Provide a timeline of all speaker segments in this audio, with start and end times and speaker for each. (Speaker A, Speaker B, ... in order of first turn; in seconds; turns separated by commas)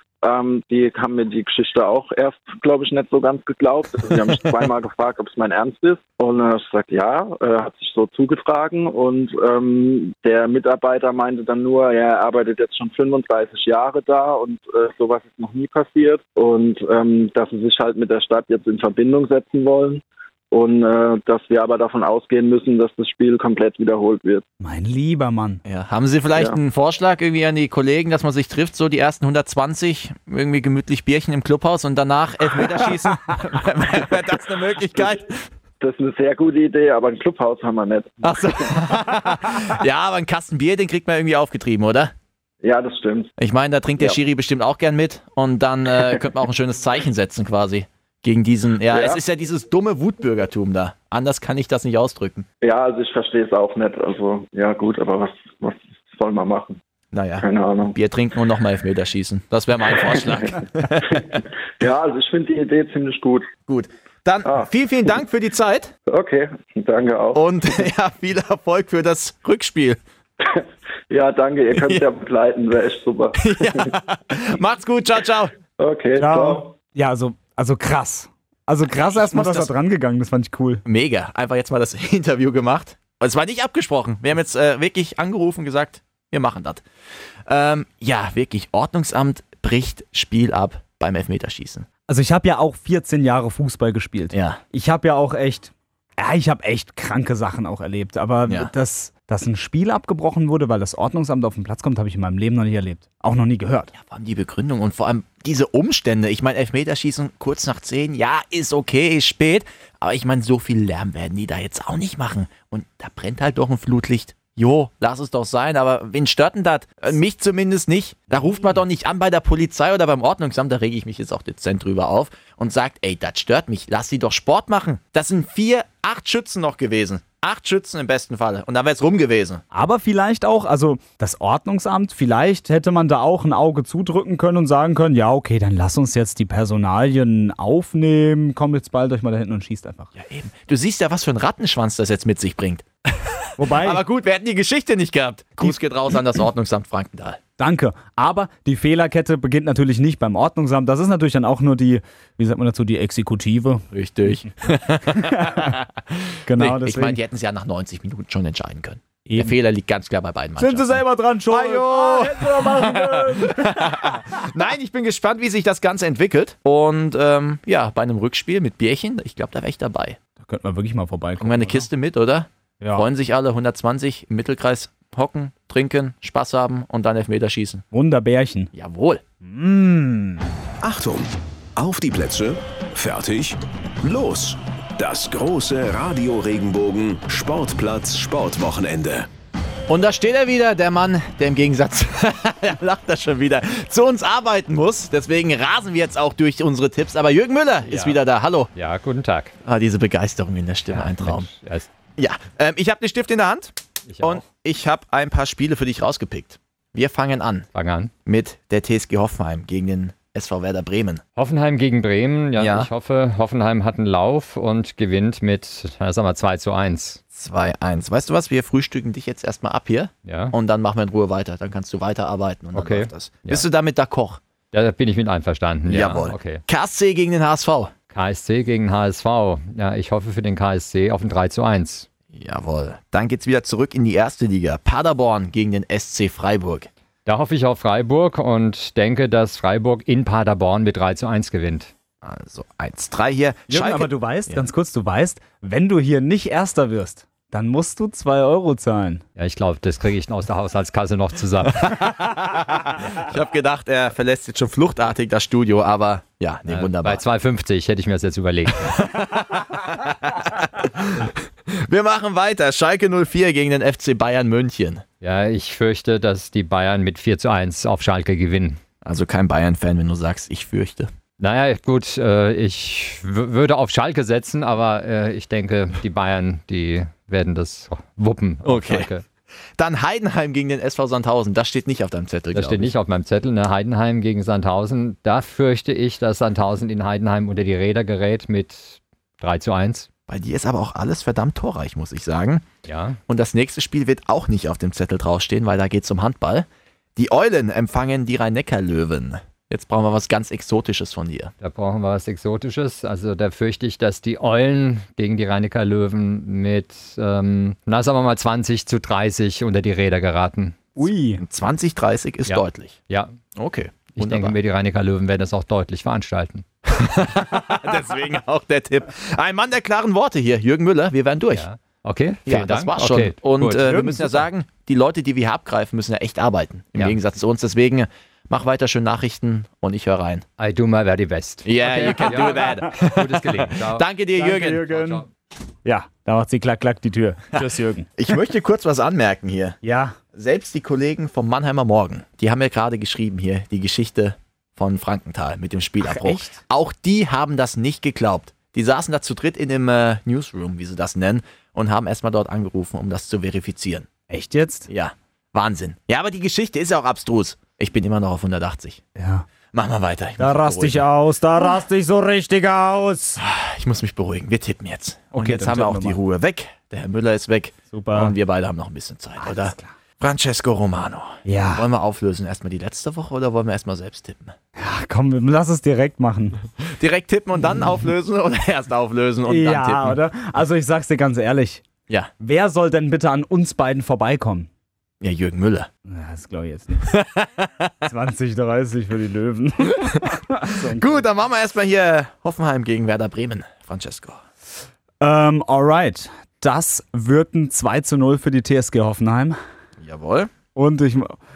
Speaker A: 0.2-24.4, Speaker B: 24.6-25.6, Speaker C: 25.6-35.4, Speaker A: 35.8-38.8, Speaker C: 38.2-42.1, Speaker A: 42.6-43.3, Speaker C: 43.4-52.5, Speaker A: 48.9-49.2, Speaker A: 52.6-56.8, Speaker C: 57.1-61.4, Speaker A: 57.4-58.0, Speaker A: 60.1-60.5, Speaker A: 61.0-63.5, Speaker C: 63.7-65.9, Speaker A: 66.1-67.4, Speaker C: 67.3-70.0, Speaker A: 70.4-73.9, Speaker C: 71.7-72.0, Speaker C: 73.4-75.5, Speaker A: 75.8-76.7, Speaker B: 76.2-80.8, Speaker C: 79.1-79.7, Speaker C: 80.8-86.8, Speaker C: 87.5-91.9, Speaker B: 92.1-103.9, Speaker C: 94.3-94.6, Speaker C: 98.5-98.7, Speaker C: 103.9-129.6, Speaker B: 129.7-140.1, Speaker C: 140.1-147.4, Speaker B: 143.6-144.0, Speaker B: 147.6-153.8, Speaker C: 153.9-170.2, Speaker B: 155.2-155.7, Speaker B: 156.5-157.2, Speaker B: 159.3-159.5, Speaker B: 160.6-164.4, Speaker B: 170.4-171.9, Speaker C: 171.4-177.8, Speaker B: 172.8-173.1, Speaker B: 177.9-178.7, Speaker C: 178.7-179.2, Speaker B: 179.4-180.4, Speaker D: 180.8-189.3, Speaker C: 189.9-198.7, Speaker E: 197.9-198.2, Speaker E: 198.7-199.5, Speaker C: 199.7-201.5, Speaker E: 200.9-201.9, Speaker C: 202.2-207.7, Speaker E: 204.1-204.4, Speaker E: 207.7-208.1, Speaker C: 208.2-211.2, Speaker E: 211.3-217.2, Speaker C: 212.6-212.9, Speaker C: 217.3-224.4, Speaker E: 220.2-220.5, Speaker E: 222.7-223.7, Speaker E: 224.7-226.6, Speaker C: 225.9-227.9, Speaker E: 228.1-232.1, Speaker C: 232.3-236.9, Speaker E: 237.2-241.9, Speaker C: 242.2-244.6, Speaker B: 243.7-249.2, Speaker E: 249.3-252.1, Speaker C: 251.8-257.2, Speaker E: 256.7-259.0, Speaker C: 258.8-265.0, Speaker E: 265.2-268.8, Speaker C: 269.0-271.1, Speaker E: 271.4-279.2, Speaker C: 278.6-279.1, Speaker C: 279.8-282.9, Speaker E: 282.5-290.1, Speaker C: 290.3-292.6, Speaker E: 292.9-293.2, Speaker C: 293.3-301.5, Speaker E: 301.6-310.9, Speaker B: 311.0-311.4, Speaker C: 311.4-313.0, Speaker E: 312.5-313.3, Speaker C: 313.6-314.6, Speaker E: 314.1-316.6, Speaker C: 316.9-321.6, Speaker E: 321.5-323.9, Speaker C: 322.4-330.4, Speaker B: 323.8-324.4, Speaker E: 330.6-334.1, Speaker C: 331.6-334.9, Speaker B: 334.4-335.2, Speaker E: 334.9-335.2, Speaker B: 335.8-338.1, Speaker C: 338.2-339.8, Speaker B: 339.8-340.2, Speaker C: 340.3-354.1, Speaker B: 346.0-346.6, Speaker B: 354.3-354.9, Speaker C: 354.9-359.0, Speaker B: 359.1-359.4, Speaker C: 359.7-361.1, Speaker B: 360.4-363.4, Speaker C: 363.4-374.5, Speaker B: 365.3-366.2, Speaker B: 367.9-368.4, Speaker B: 369.4-369.9, Speaker B: 371.4-371.9, Speaker B: 374.8-376.6, Speaker C: 376.9-380.2, Speaker B: 379.5-381.8, Speaker B: 382.4-384.7, Speaker C: 385.2-385.9, Speaker B: 386.1-387.1, Speaker C: 387.0-387.9, Speaker B: 388.0-391.2, Speaker C: 390.7-394.4, Speaker B: 395.2-399.6, Speaker C: 400.0-400.5, Speaker B: 400.7-401.4